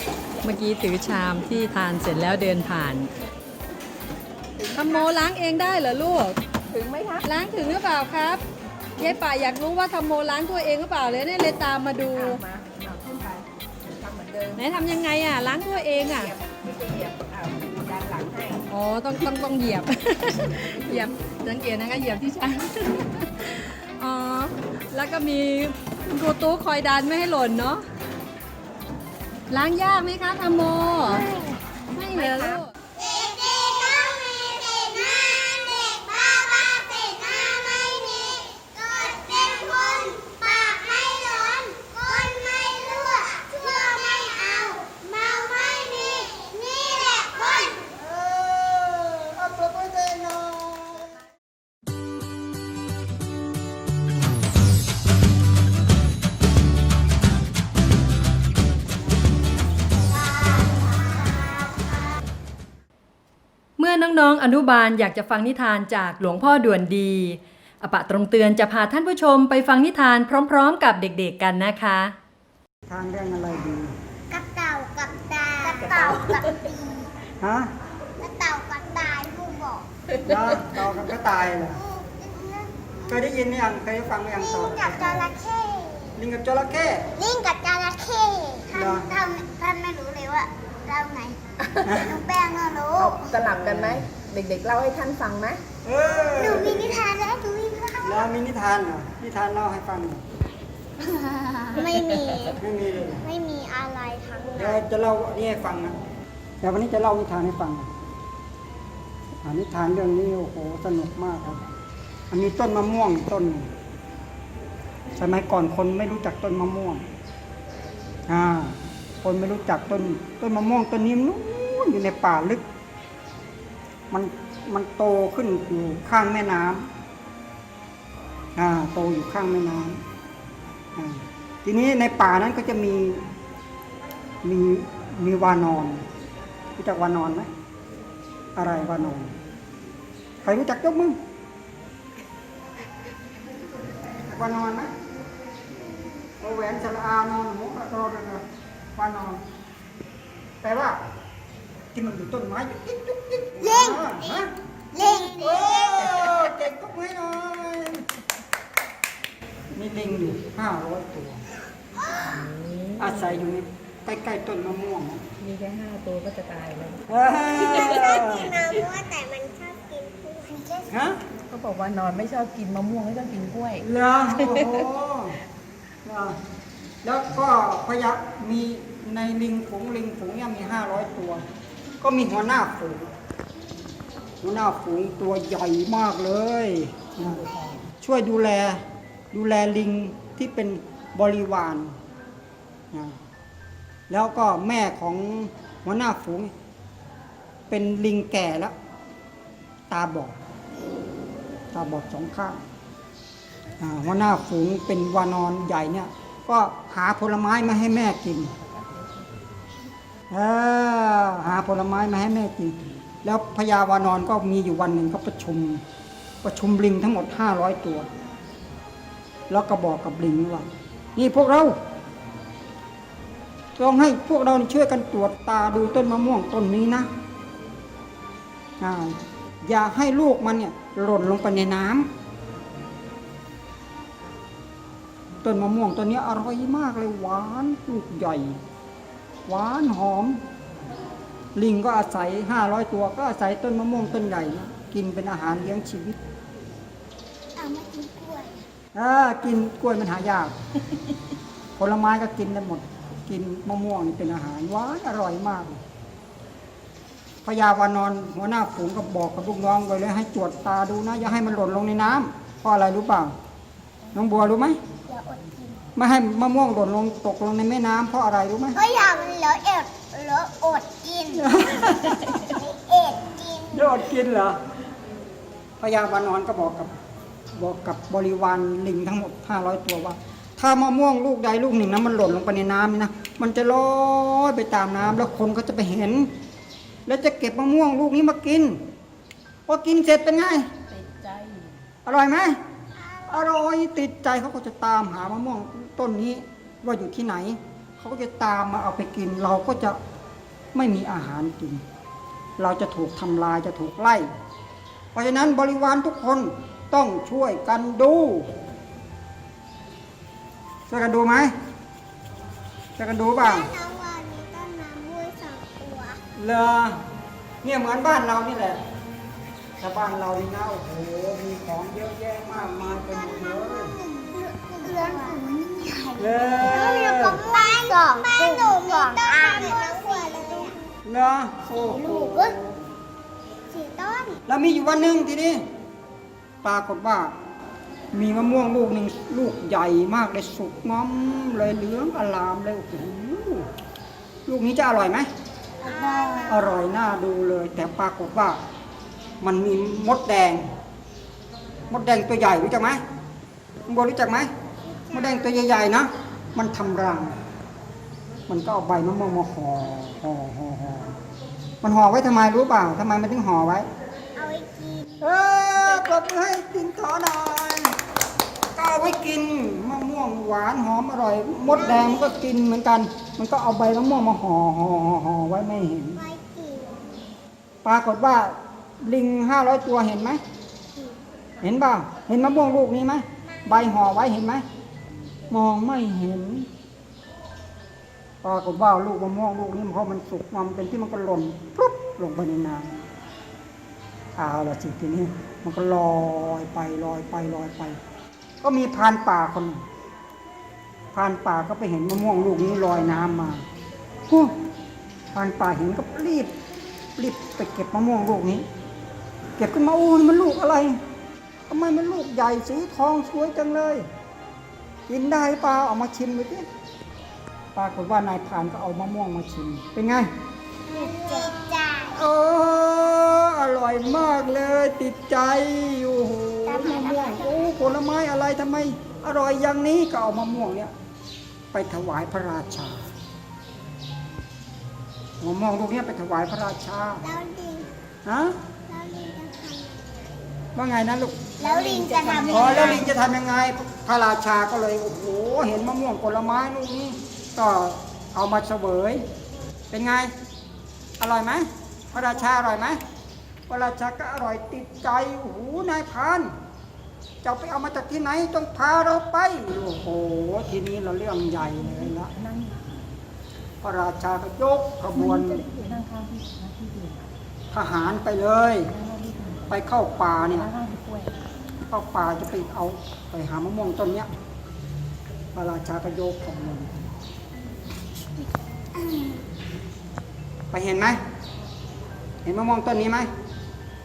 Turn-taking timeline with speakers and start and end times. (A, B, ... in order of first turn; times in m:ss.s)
0:00.4-0:03.1 A
0:04.6-0:05.0 B
0:04.8-0:06.4 A
0:06.7-0:07.3 B
0:07.2-0:08.4 A
0:09.0-0:12.4 A
0:12.1-0:14.9 B
0:14.6-0:16.3 A
0:16.0-0:18.6 B
0:18.7-0:27.8 A
0:20.7-0:21.1 B
0:29.5-0:31.3 A
0:31.2-0:31.5 B
0:31.9-0:32.7 A
0:32.1-0:32.6 B
0:33.0-0:47.8 C
0:47.8-0:51.1 D
1:00.2-1:01.5 C
1:03.8-1:12.1 A
1:12.9-1:14.0 D
1:14.3-1:17.1 C
1:15.8-1:16.6 B
1:17.4-1:17.7 D
1:18.2-1:19.8 C
1:20.2-1:21.8 D
1:21.8-1:23.2 C
1:23.1-1:25.3 D
1:24.4-1:26.1 C
1:26.2-1:27.1 D
1:27.2-1:31.4 C
1:28.7-1:29.1 D
1:31.8-1:32.2 D
1:31.9-1:33.2 C
1:33.0-1:35.6 B
1:35.8-1:37.0 D
1:36.2-1:38.3 C
1:38.0-1:40.3 D
1:41.7-1:42.6 C
1:42.6-1:43.3 D
1:43.2-1:44.8 C
1:44.6-1:46.0 D
1:46.6-1:47.9 D
1:49.4-1:51.6 D
1:52.3-1:53.7 D
1:55.2-1:57.1 D
1:58.3-2:02.7 D
2:04.1-2:06.9 D
2:08.6-2:10.0 D
2:11.0-2:13.3 D
2:14.4-2:16.0 D
2:16.8-2:17.5 D
2:18.6-2:19.4 D
2:20.4-2:21.2 D
2:24.2-2:24.9 D
2:26.4-2:29.4 D
2:30.6-2:31.0 D
2:31.9-2:38.0 D
2:33.6-2:36.5 C
2:39.7-2:41.4 D
2:42.0-2:42.2 C
2:42.3-2:43.4 B
2:43.0-2:45.2 D
2:45.4-2:47.0 B
2:47.1-2:48.6 D
2:47.6-2:50.9 C
2:47.8-2:48.2 B
2:50.9-2:51.2 D
2:51.5-2:54.9 B
2:53.8-2:55.4 D
2:56.0-2:56.4 D
2:57.0-3:01.4 D
3:02.0-3:03.1 D
3:04.4-3:12.0 D
3:12.9-3:13.2 D
3:14.1-3:16.5 D
3:17.7-3:18.7 D
3:19.9-3:20.4 D
3:21.7-3:22.6 D
3:23.8-3:28.5 D
3:30.3-3:35.8 D
3:36.4-3:38.1 D
3:39.5-3:41.8 D
3:43.8-3:47.1 D
3:48.8-3:52.1 D
3:55.4-3:58.6 D
3:59.5-4:00.4 D
4:01.6-4:06.2 D
4:07.6-4:08.6 C
4:09.0-4:10.6 D
4:11.8-4:15.8 D
4:17.4-4:23.4 D
4:24.1-4:24.8 D
4:25.1-4:25.8 C
4:26.0-4:28.8 D
4:28.8-4:33.8 C
4:31.4-4:32.6 D
4:33.7-4:34.6 D
4:35.8-4:37.0 D
4:37.6-4:46.3 D
4:47.1-4:48.9 D
4:49.7-4:50.7 D
4:50.9-4:51.7 B
4:52.1-4:52.6 D
4:53.3-5:00.0 D
5:00.7-5:01.8 D
5:02.6-5:04.3 D
5:05.1-5:08.5 D
5:10.9-5:11.5 D
5:13.0-5:13.7 D
5:13.4-5:16.2 C
5:16.4-5:17.0 D
5:17.6-5:18.8 D
5:19.8-5:24.0 D
5:22.8-5:30.8 C
5:24.9-5:25.2 D
5:26.2-5:27.5 D
5:31.0-5:32.6 D
5:31.8-5:32.6 C
5:33.7-5:34.4 C
5:34.5-5:35.6 D
5:36.6-5:37.4 D
5:38.1-5:43.7 D
5:44.5-5:45.3 D
5:45.8-5:46.6 C
5:46.5-5:48.6 D
5:49.4-5:50.7 D
5:51.9-5:53.0 D
5:53.9-5:54.5 D
5:54.9-5:55.4 C
5:55.1-5:57.4 D
5:58.5-6:01.1 D
6:01.8-6:03.9 D
6:04.4-6:05.1 C
6:05.2-6:08.0 D
6:08.8-6:16.2 D
6:11.8-6:12.3 C
6:16.2-6:17.1 C
6:17.8-6:20.4 D
6:21.6-6:24.6 D
6:25.5-6:26.7 D
6:28.4-6:33.0 D
6:34.4-6:38.0 D
6:38.6-6:39.9 D
6:41.1-6:43.6 D
6:44.3-6:44.6 D
6:45.3-6:46.6 D
6:47.2-6:48.7 D
6:49.6-6:51.0 D
6:51.7-6:54.1 D
6:55.1-6:56.7 D
6:57.8-7:00.3 D
7:00.9-7:02.2 C
7:02.1-7:10.9 D
7:06.7-7:07.6 C
7:11.7-7:13.0 D
7:15.4-7:17.3 D
7:17.2-7:17.9 C
7:18.3-7:18.6 D
7:18.9-7:20.4 C
7:20.8-7:29.3 D
7:21.6-7:23.1 C
7:29.9-7:30.4 D
7:31.2-7:33.0 D
7:33.7-7:36.6 D
7:37.4-7:42.3 D
7:41.8-7:43.0 B
7:43.8-7:45.7 D
7:45.1-7:47.2 B
7:47.7-7:48.9 D
7:48.9-7:49.8 B
7:49.7-7:50.7 D
7:50.4-7:51.5 B
7:51.9-7:54.3 D
7:55.6-7:57.1 D
8:00.7-8:01.2 D
8:02.4-8:03.3 D